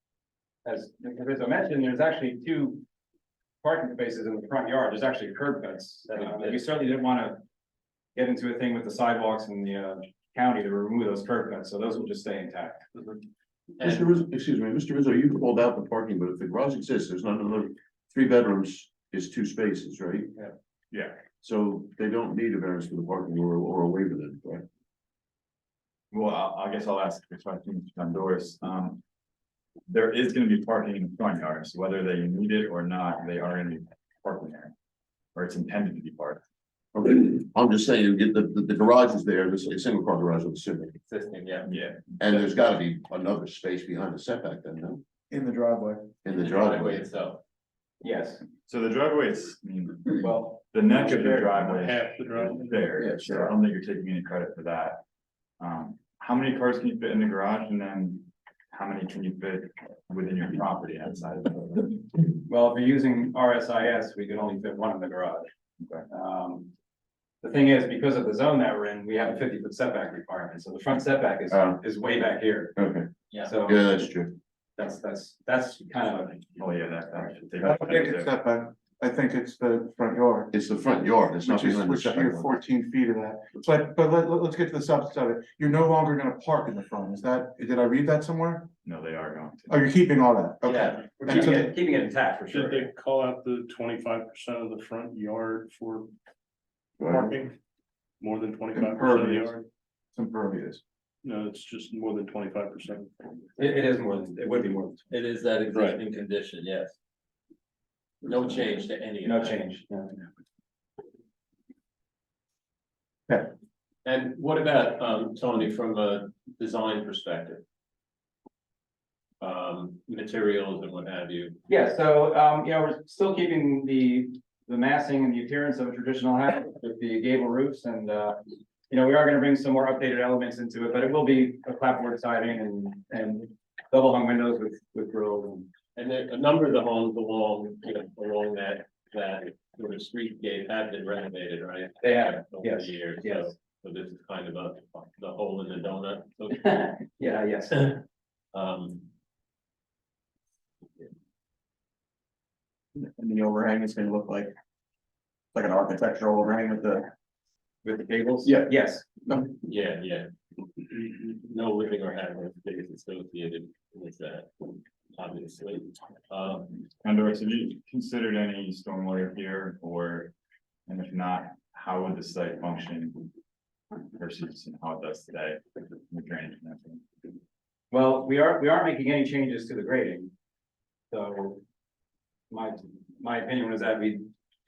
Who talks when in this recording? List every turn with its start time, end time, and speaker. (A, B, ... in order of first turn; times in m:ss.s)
0:00.6-0:02.8 A
0:03.6-0:07.4 A
0:06.1-0:06.6 B
0:08.2-0:12.9 A
0:13.8-0:14.1 B
0:13.8-0:20.5 C
0:20.9-0:21.2 D
0:21.4-0:24.6 C
0:26.1-0:29.0 D
0:29.9-0:34.7 D
0:35.4-0:36.4 D
0:36.9-0:41.0 C
0:41.1-0:41.7 B
0:41.6-0:42.2 D
0:42.2-0:45.0 C
0:45.3-0:46.1 E
0:46.2-0:47.1 C
0:46.3-0:47.4 B
0:48.0-0:48.4 A
0:48.7-0:55.0 D
0:50.2-0:51.5 A
0:51.7-0:53.1 F
0:55.6-1:02.1 D
1:02.5-1:05.5 A
1:06.1-1:06.7 A
1:07.4-1:12.8 A
1:11.5-1:11.8 C
1:12.8-1:13.1 C
1:13.4-1:13.9 A
1:13.6-1:14.4 C
1:14.8-1:16.7 A
1:16.6-1:18.3 D
1:17.6-1:20.5 E
1:20.5-1:22.5 C
1:21.4-1:28.7 E
1:28.8-1:29.8 D
1:29.7-1:31.7 E
1:30.7-1:31.0 B
1:31.2-1:32.9 A
1:32.5-1:36.1 F
1:37.0-1:37.3 C
1:37.1-1:37.6 F
1:38.2-1:39.6 F
1:38.8-1:39.5 E
1:40.1-1:40.8 E
1:41.2-1:43.4 F
1:43.6-1:45.1 A
1:45.1-1:47.0 B
1:45.7-1:46.0 F
1:48.2-1:49.6 B
1:49.2-1:50.3 A
1:54.0-1:57.6 B
1:59.4-2:01.6 B
2:01.7-2:15.7 A
2:16.0-2:26.6 B
2:22.0-2:23.5 A
2:26.6-2:28.0 A
2:28.5-2:29.1 B
2:33.0-2:34.5 G
2:35.6-2:37.0 G
2:37.8-2:39.1 A
2:39.6-2:40.3 B
2:40.8-2:46.8 B
2:47.0-2:50.3 D
2:50.9-2:53.2 D
2:54.1-2:57.0 D
2:57.9-3:00.3 A
3:01.1-3:01.6 A
3:02.5-3:04.3 A